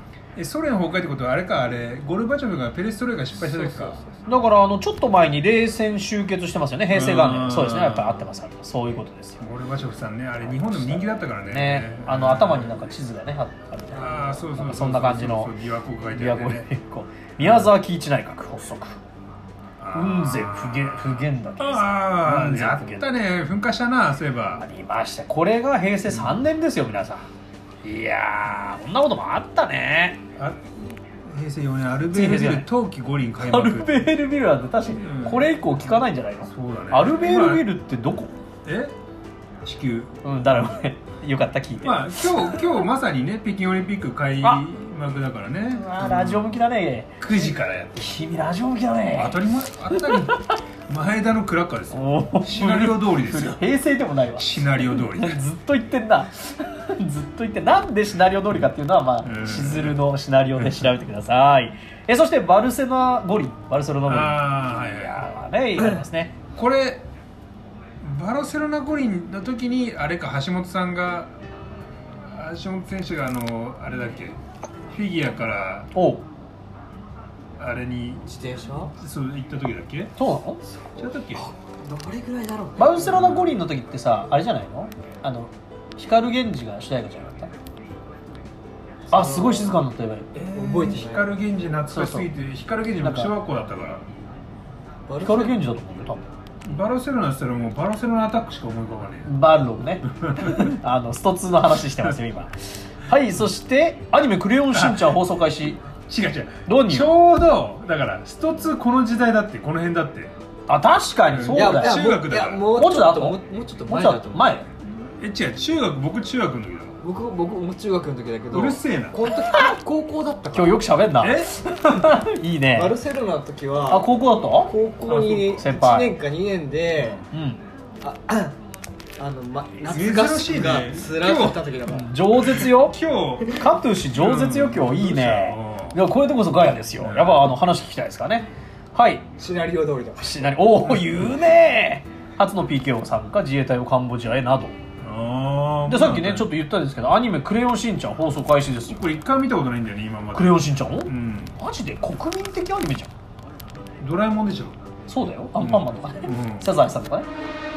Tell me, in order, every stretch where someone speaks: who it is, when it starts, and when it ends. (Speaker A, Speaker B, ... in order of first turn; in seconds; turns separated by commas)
Speaker A: 0.4-4.0, Speaker B: 3.4-4.1, Speaker C: 4.3-9.4, Speaker A: 6.9-8.3, Speaker A: 9.4-12.8, Speaker C: 10.5-15.5, Speaker A: 13.9-16.7, Speaker C: 16.1-19.0, Speaker A: 17.4-17.7, Speaker A: 19.8-24.6, Speaker C: 19.9-23.1, Speaker C: 24.6-27.3, Speaker C: 27.8-30.2, Speaker A: 30.4-30.7, Speaker A: 31.2-34.0, Speaker C: 32.1-32.7, Speaker C: 33.4-38.3, Speaker A: 35.0-35.5, Speaker A: 36.5-37.7, Speaker A: 38.6-38.9, Speaker A: 39.6-40.1, Speaker C: 40.2-42.5, Speaker A: 41.8-46.6, Speaker C: 45.7-47.2, Speaker A: 47.2-48.2, Speaker C: 48.0-49.4, Speaker A: 49.1-53.6, Speaker C: 49.9-50.5, Speaker C: 51.9-66.4, Speaker A: 54.4-55.4, Speaker A: 59.2-60.0, Speaker A: 60.6-60.9, Speaker A: 64.1-65.2, Speaker A: 66.5-67.1, Speaker A: 68.0-71.3, Speaker A: 72.3-74.4, Speaker A: 74.9-75.9, Speaker C: 75.9-76.2, Speaker A: 77.6-78.2, Speaker B: 78.3-78.9, Speaker A: 79.0-80.1, Speaker C: 80.2-80.6, Speaker B: 81.0-83.4, Speaker A: 81.0-81.5, Speaker C: 82.8-87.5, Speaker A: 83.2-83.5, Speaker C: 89.1-90.3, Speaker B: 89.1-89.8, Speaker A: 90.3-94.0, Speaker B: 90.4-91.4, Speaker C: 91.9-92.3, Speaker C: 93.0-93.3, Speaker B: 95.1-95.6, Speaker C: 95.2-96.3, Speaker A: 96.7-99.3, Speaker C: 99.2-105.8, Speaker A: 100.0-100.8, Speaker A: 104.7-105.2, Speaker A: 106.0-110.3, Speaker C: 106.7-107.2, Speaker C: 110.7-114.7, Speaker A: 111.3-112.7, Speaker B: 111.5-114.7, Speaker A: 115.0-117.0, Speaker B: 117.0-120.9, Speaker A: 118.5-119.2, Speaker C: 119.3-119.8, Speaker C: 120.5-122.9, Speaker A: 121.2-121.6, Speaker B: 122.7-127.2, Speaker C: 123.9-124.8, Speaker A: 125.0-125.7, Speaker C: 125.6-126.1, Speaker C: 127.3-127.6, Speaker B: 128.0-128.6, Speaker B: 129.2-132.2, Speaker A: 129.9-131.6, Speaker C: 131.9-139.3, Speaker A: 132.4-136.0, Speaker A: 137.0-137.5, Speaker B: 139.4-140.6, Speaker C: 140.2-144.8, Speaker A: 145.0-146.5, Speaker C: 145.9-149.1, Speaker A: 148.9-151.6, Speaker C: 150.3-153.1, Speaker A: 154.0-154.8, Speaker C: 155.1-157.3, Speaker A: 155.6-156.7